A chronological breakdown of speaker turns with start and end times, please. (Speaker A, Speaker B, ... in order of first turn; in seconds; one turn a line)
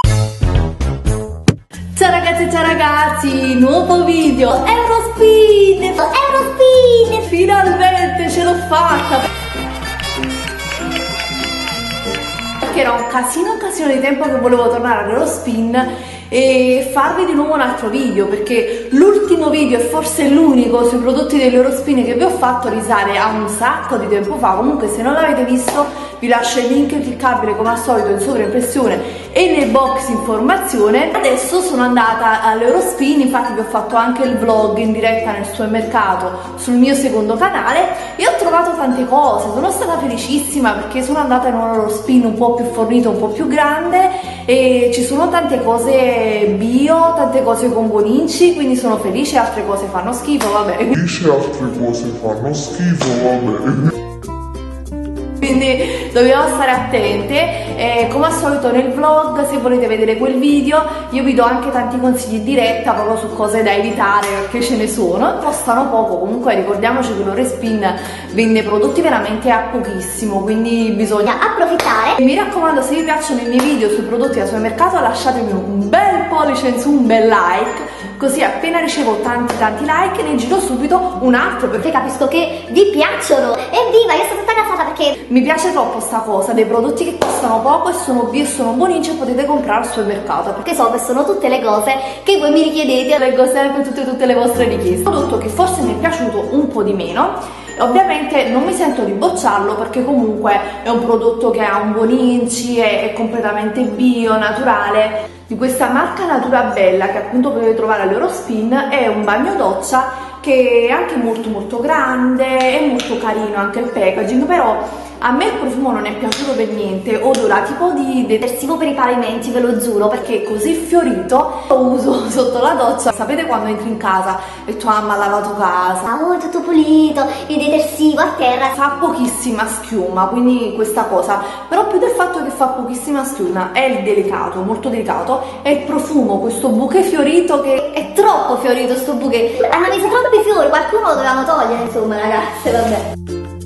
Speaker A: 1.9-9.3
Speaker B: 6.2-7.1
Speaker A: 12.6-50.9
Speaker C: 50.9-53.9
Speaker A: 55.4-71.3
Speaker B: 71.3-72.2
Speaker A: 72.2-81.9
Speaker B: 81.8-85.2
Speaker A: 85.2-90.7
Speaker B: 90.7-93.2
Speaker A: 93.2-126.1
Speaker B: 119.2-120.1
Speaker B: 126.1-128.8
Speaker A: 128.8-137.8
Speaker B: 137.8-143.1